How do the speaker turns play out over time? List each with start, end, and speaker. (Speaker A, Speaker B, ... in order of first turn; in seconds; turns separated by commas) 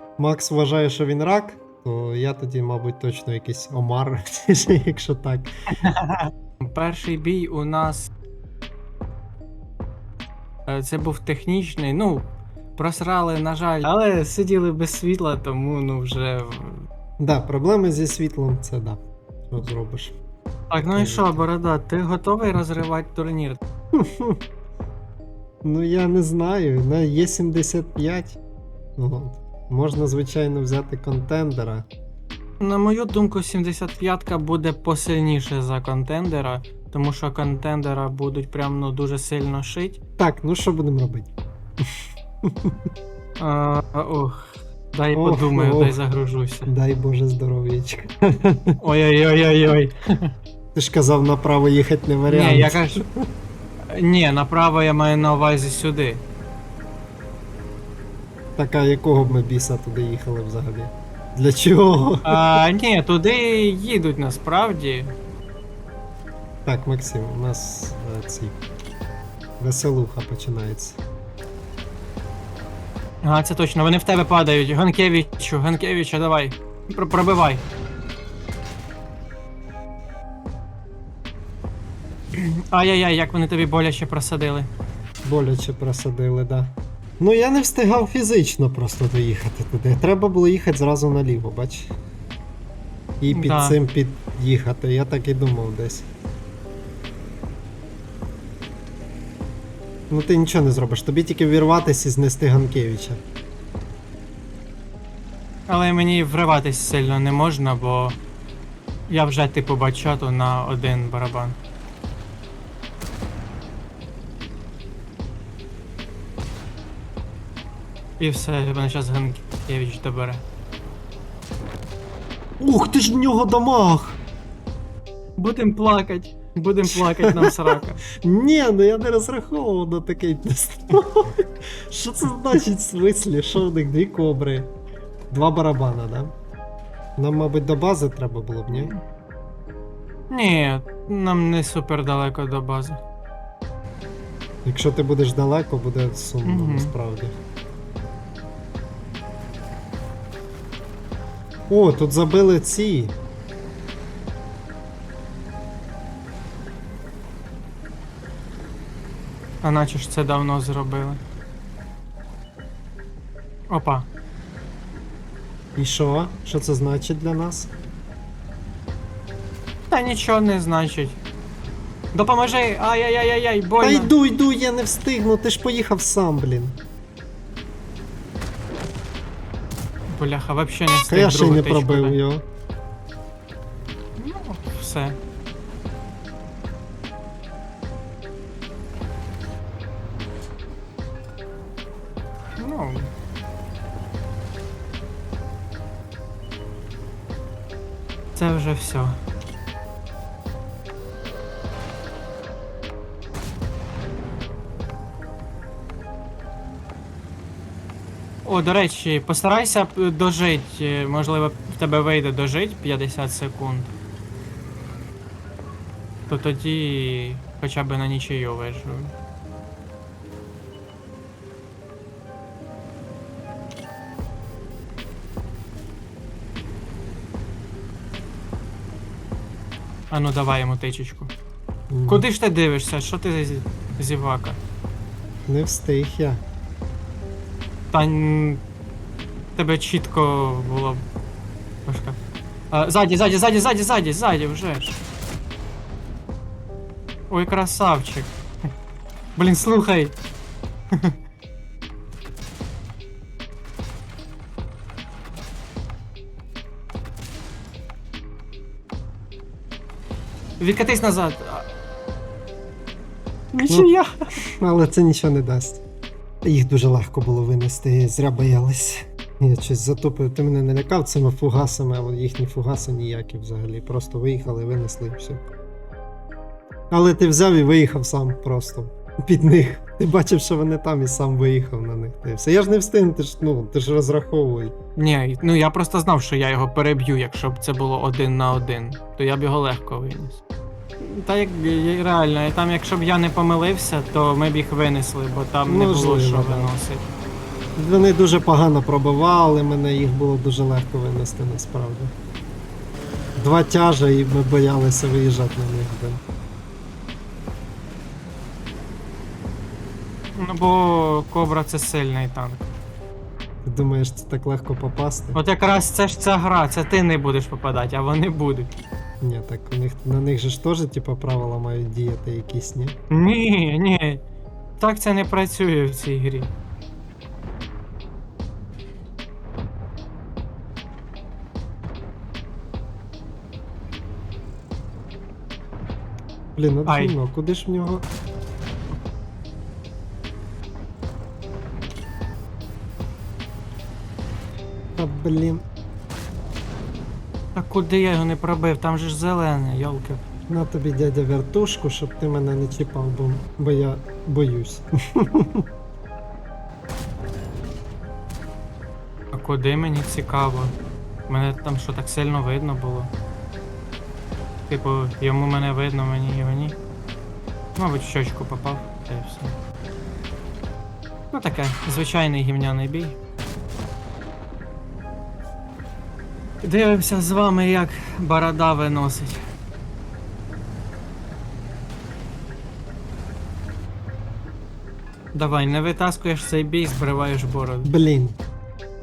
Speaker A: 0.2-5.5, Speaker B: 5.8-8.1, Speaker B: 10.7-16.9, Speaker A: 17.2-20.1, Speaker B: 20.7-23.6, Speaker A: 20.8-21.5, Speaker A: 23.9-24.4, Speaker A: 25.6-28.4, Speaker A: 29.0-31.9, Speaker B: 32.6-40.0, Speaker A: 40.2-41.3, Speaker A: 42.5-42.7, Speaker B: 43.4-46.7, Speaker A: 45.1-46.0, Speaker A: 46.7-48.7, Speaker B: 48.8-50.3, Speaker A: 50.7-53.2, Speaker B: 52.3-53.0, Speaker B: 53.9-56.2, Speaker A: 58.6-62.6, Speaker B: 62.2-65.1, Speaker A: 66.6-68.6, Speaker A: 69.6-71.0, Speaker B: 73.2-77.6, Speaker B: 82.3-84.7, Speaker A: 85.2-91.9, Speaker A: 93.2-96.1, Speaker B: 93.3-93.8, Speaker A: 100.1-103.2, Speaker B: 105.7-108.2, Speaker B: 109.1-111.6, Speaker B: 118.2-120.4, Speaker A: 122.6-124.2, Speaker B: 125.4-128.0, Speaker A: 126.8-134.7, Speaker A: 135.3-136.3, Speaker A: 137.2-138.9, Speaker B: 138.7-138.9, Speaker B: 140.3-143.0, Speaker A: 144.6-147.4, Speaker B: 146.4-146.9, Speaker A: 151.7-153.1, Speaker B: 159.6-161.2, Speaker B: 163.7-164.1, Speaker A: 165.8-167.7, Speaker B: 169.9-171.2, Speaker B: 172.1-174.1, Speaker A: 173.8-176.8, Speaker B: 180.1-182.2, Speaker A: 181.1-182.4, Speaker B: 184.2-185.2, Speaker B: 192.6-193.1, Speaker B: 198.3-199.2, Speaker B: 208.4-213.9, Speaker B: 216.3-219.1, Speaker B: 230.1-231.3, Speaker A: 231.9-232.3, Speaker B: 232.1-234.6, Speaker A: 235.5-236.4, Speaker B: 237.9-238.6, Speaker B: 239.6-241.0, Speaker B: 241.8-242.2, Speaker B: 242.7-245.0, Speaker B: 247.3-248.3, Speaker B: 249.3-250.2, Speaker B: 260.6-261.7, Speaker B: 263.5-264.1, Speaker A: 263.6-263.9, Speaker A: 264.4-265.8, Speaker A: 266.4-275.5, Speaker A: 276.9-284.7, Speaker B: 284.9-290.4, Speaker B: 291.0-297.1, Speaker A: 295.6-296.7, Speaker A: 297.8-302.1, Speaker A: 303.4-306.2, Speaker B: 310.4-312.7, Speaker A: 313.6-315.4, Speaker B: 315.3-318.7, Speaker A: 319.2-322.9, Speaker B: 323.1-324.2, Speaker B: 324.8-326.5, Speaker A: 336.5-338.0, Speaker B: 336.9-337.1, Speaker A: 344.9-345.6, Speaker B: 347.5-350.2, Speaker A: 350.5-355.6, Speaker B: 359.3-360.7, Speaker B: 361.3-363.1, Speaker B: 364.7-366.8, Speaker B: 367.8-369.5, Speaker B: 371.3-373.2, Speaker B: 376.6-379.4, Speaker B: 385.3-387.9, Speaker A: 387.8-388.4